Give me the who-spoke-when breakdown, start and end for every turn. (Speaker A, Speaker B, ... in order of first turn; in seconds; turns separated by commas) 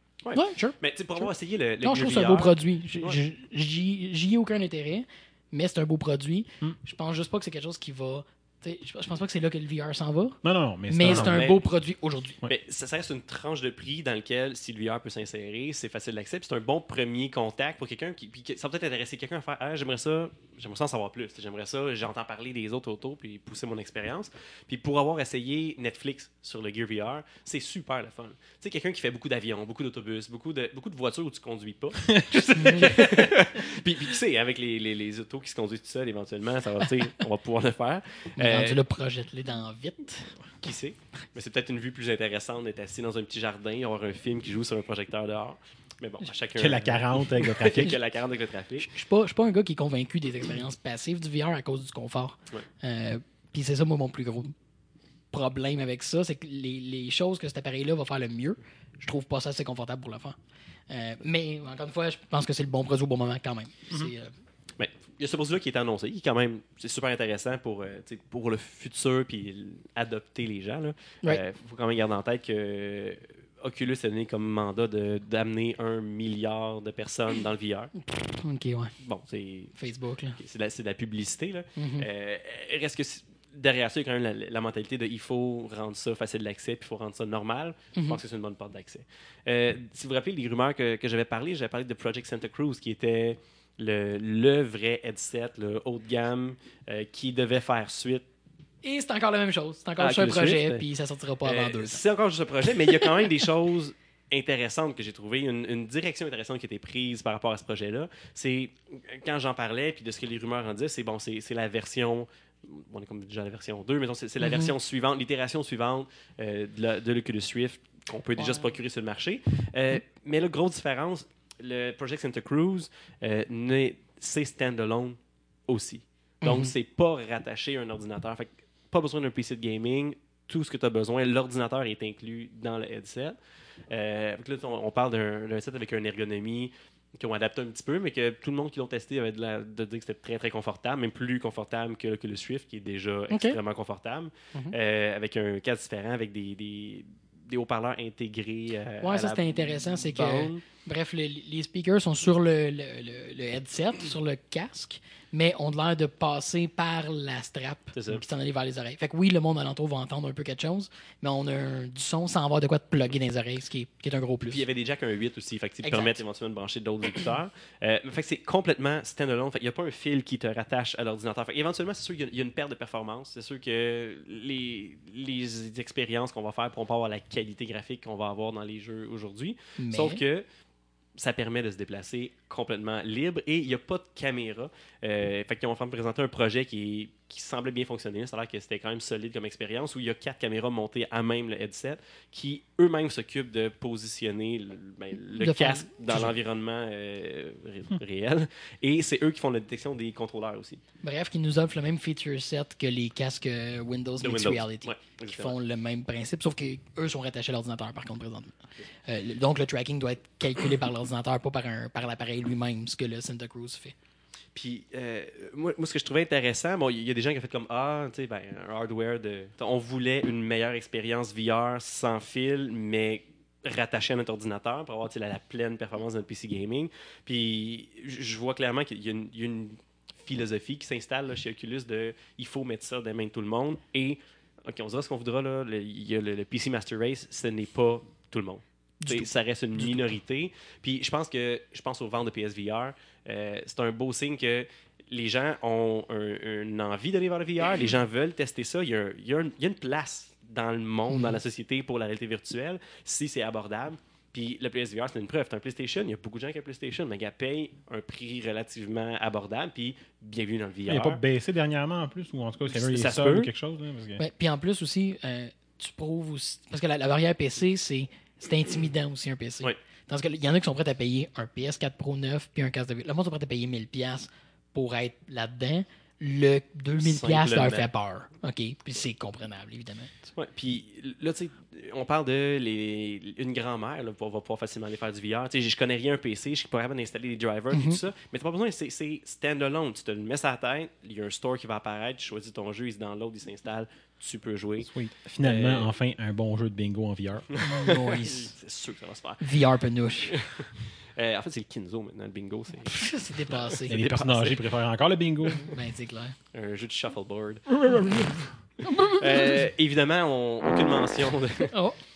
Speaker A: 0.2-3.2, Speaker B: 0.3-1.3, Speaker B: 1.8-12.4, Speaker C: 10.4-11.4, Speaker A: 11.0-11.6, Speaker A: 12.4-38.8, Speaker C: 32.1-33.3, Speaker B: 32.5-32.9, Speaker B: 38.4-40.3, Speaker A: 40.6-48.9, Speaker C: 46.6-47.9, Speaker B: 48.8-54.5, Speaker B: 55.3-60.4, Speaker B: 60.9-64.3, Speaker A: 64.8-77.9, Speaker B: 78.1-78.9, Speaker A: 79.0-79.8, Speaker B: 79.8-80.4, Speaker A: 80.4-98.2, Speaker B: 81.8-82.0, Speaker B: 87.9-88.2, Speaker B: 98.8-102.0, Speaker A: 100.0-100.8, Speaker A: 101.4-133.4, Speaker B: 114.4-114.7, Speaker B: 118.4-118.7, Speaker B: 126.4-126.7, Speaker A: 133.9-150.6, Speaker B: 143.3-143.6, Speaker B: 149.0-164.6, Speaker A: 157.9-158.2, Speaker A: 164.5-180.4, Speaker B: 165.8-166.2, Speaker B: 179.8-180.2, Speaker A: 181.2-200.8, Speaker B: 195.3-196.3, Speaker B: 201.0-208.5, Speaker A: 204.2-205.5, Speaker B: 209.1-213.9, Speaker A: 214.5-261.2, Speaker B: 239.0-239.3, Speaker B: 251.1-251.4, Speaker C: 260.9-264.2, Speaker A: 262.7-263.5, Speaker B: 264.2-280.1, Speaker A: 277.0-277.9, Speaker A: 280.4-294.9, Speaker B: 287.7-288.0, Speaker C: 294.9-297.5, Speaker A: 295.4-295.9, Speaker A: 297.5-299.5, Speaker B: 297.6-298.5, Speaker B: 299.4-300.3, Speaker A: 300.3-303.0, Speaker B: 302.9-304.1, Speaker A: 303.5-304.6, Speaker C: 303.9-305.7, Speaker B: 305.6-306.3, Speaker A: 306.5-307.8, Speaker B: 307.7-309.5, Speaker A: 309.0-311.7, Speaker B: 311.7-312.0